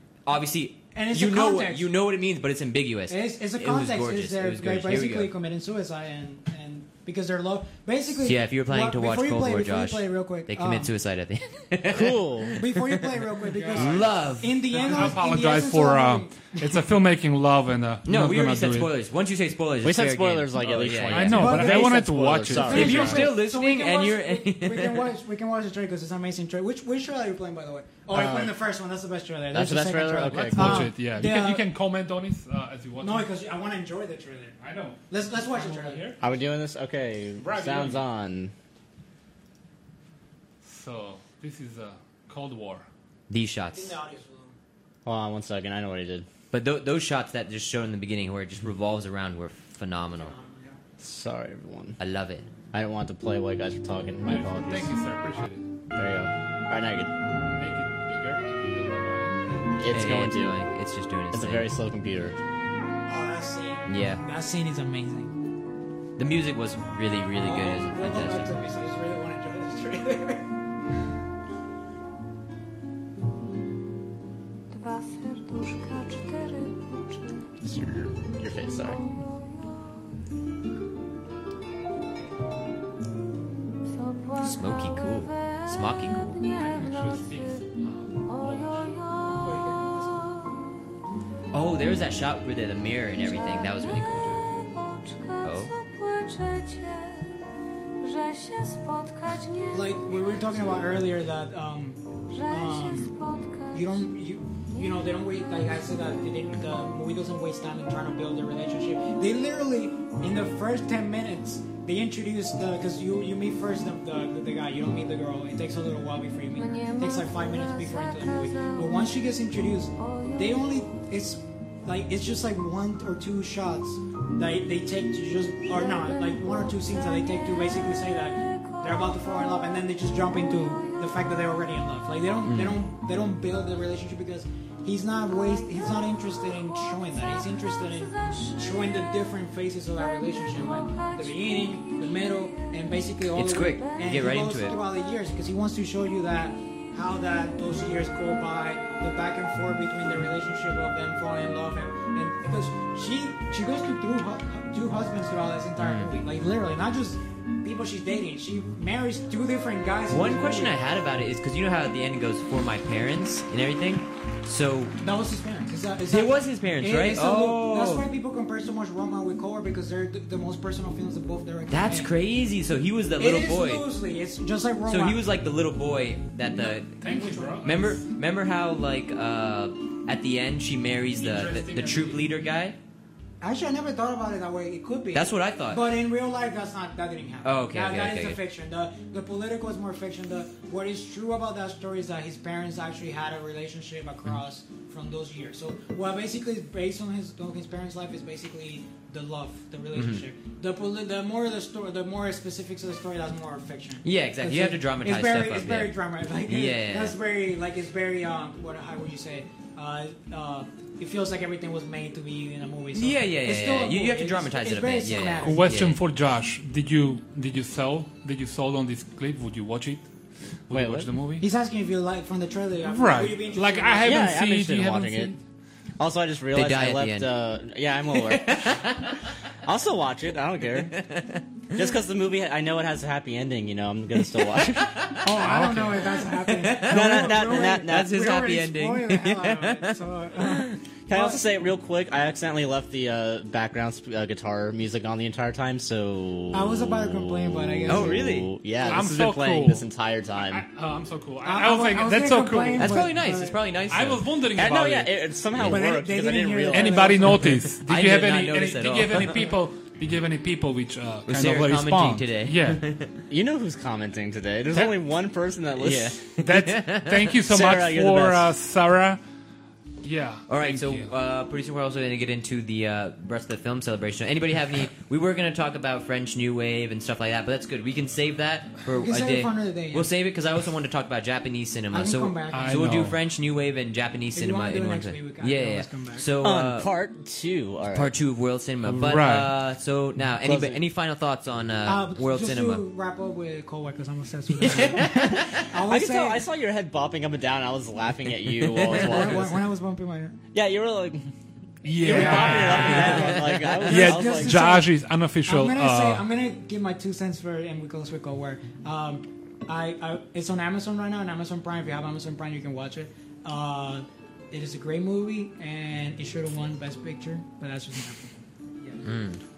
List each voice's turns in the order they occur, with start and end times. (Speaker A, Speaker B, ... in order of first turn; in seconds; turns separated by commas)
Speaker A: 0.2-5.3, Speaker B: 0.9-1.9, Speaker B: 3.1-10.9, Speaker A: 8.2-13.0, Speaker C: 11.9-12.6, Speaker B: 12.6-16.6, Speaker D: 13.5-14.1, Speaker A: 13.7-15.1, Speaker D: 14.7-18.9, Speaker A: 18.0-21.6, Speaker C: 19.8-23.2, Speaker D: 20.6-23.3, Speaker B: 21.3-22.1, Speaker A: 22.6-25.1, Speaker B: 22.6-31.7, Speaker C: 28.1-28.5, Speaker C: 29.5-30.9, Speaker D: 30.3-33.3, Speaker B: 33.0-34.5, Speaker D: 34.6-36.2, Speaker B: 35.1-36.0, Speaker C: 36.2-38.5, Speaker D: 37.4-38.0, Speaker D: 40.6-42.9, Speaker A: 43.3-44.0, Speaker B: 43.7-44.5, Speaker C: 45.0-46.3, Speaker A: 46.5-50.3, Speaker B: 50.2-50.8, Speaker C: 51.0-52.0, Speaker A: 52.0-52.5, Speaker C: 52.7-54.9, Speaker D: 54.2-55.7, Speaker C: 55.9-57.1, Speaker D: 57.4-59.6, Speaker C: 59.8-60.6, Speaker A: 59.9-61.7, Speaker C: 61.3-62.4, Speaker B: 63.1-65.3, Speaker A: 63.9-64.2, Speaker A: 66.2-68.5, Speaker B: 67.4-70.4, Speaker E: 74.7-77.5, Speaker C: 77.6-79.0, Speaker E: 78.8-79.9, Speaker E: 83.9-87.6, Speaker A: 84.4-86.4, Speaker D: 86.5-88.9, Speaker E: 88.2-90.8, Speaker B: 89.5-90.0, Speaker A: 91.5-94.5, Speaker E: 93.2-97.5, Speaker A: 95.4-95.7, Speaker E: 98.0-101.1, Speaker B: 99.7-103.1, Speaker E: 102.3-104.1, Speaker B: 103.7-160.8, Speaker E: 104.7-105.5, Speaker E: 116.5-119.3, Speaker E: 120.0-120.9, Speaker E: 125.7-131.3, Speaker A: 132.5-132.8, Speaker E: 135.4-135.8, Speaker E: 136.5-139.2, Speaker E: 140.0-142.9, Speaker A: 143.3-144.8, Speaker A: 155.8-156.1, Speaker A: 160.1-164.9, Speaker B: 165.0-172.1, Speaker A: 166.1-168.1, Speaker A: 171.7-173.9, Speaker B: 173.2-175.2, Speaker A: 174.9-177.0, Speaker D: 176.6-178.0, Speaker B: 177.0-177.8, Speaker A: 177.6-182.8, Speaker D: 181.2-182.3, Speaker B: 183.4-215.7, Speaker A: 185.1-185.9, Speaker A: 187.4-188.4, Speaker A: 199.9-200.2, Speaker A: 204.0-205.9, Speaker A: 206.5-207.2, Speaker A: 212.9-216.0, Speaker D: 215.4-220.1, Speaker D: 220.7-221.4, Speaker C: 220.7-221.1, Speaker B: 221.4-224.3, Speaker D: 222.8-225.4, Speaker C: 224.0-225.3, Speaker C: 226.0-229.0, Speaker A: 226.5-227.3, Speaker A: 228.1-229.2, Speaker C: 229.6-231.0, Speaker A: 230.9-231.4, Speaker C: 231.7-235.2, Speaker B: 235.2-241.4, Speaker D: 235.4-236.2, Speaker A: 236.5-240.6, Speaker C: 236.8-238.2, Speaker C: 241.1-250.6, Speaker B: 246.5-248.3, Speaker A: 247.9-248.5, Speaker D: 248.8-249.8, Speaker D: 250.4-253.1, Speaker B: 251.4-253.6, Speaker A: 252.8-254.2, Speaker D: 253.9-255.7, Speaker C: 254.5-257.5, Speaker B: 255.7-257.5, Speaker D: 256.7-262.8, Speaker A: 257.8-259.5, Speaker A: 261.3-263.2, Speaker C: 263.3-266.2, Speaker A: 265.8-267.3, Speaker D: 266.4-269.2, Speaker C: 267.5-268.5, Speaker D: 270.0-271.1, Speaker A: 270.5-286.9, Speaker B: 279.0-280.1, Speaker B: 281.9-282.9, Speaker D: 282.5-283.2, Speaker B: 284.3-286.2, Speaker C: 286.4-288.1, Speaker A: 287.9-292.8, Speaker C: 288.8-289.2, Speaker D: 289.0-289.5, Speaker C: 290.4-290.8, Speaker B: 291.8-296.4, Speaker A: 294.6-295.4, Speaker C: 295.7-299.6, Speaker A: 298.6-299.2, Speaker B: 298.9-300.4, Speaker C: 300.5-301.3, Speaker D: 301.8-306.2, Speaker C: 301.9-304.6, Speaker B: 302.0-304.9, Speaker A: 302.5-303.9, Speaker B: 305.4-319.0, Speaker A: 319.0-319.4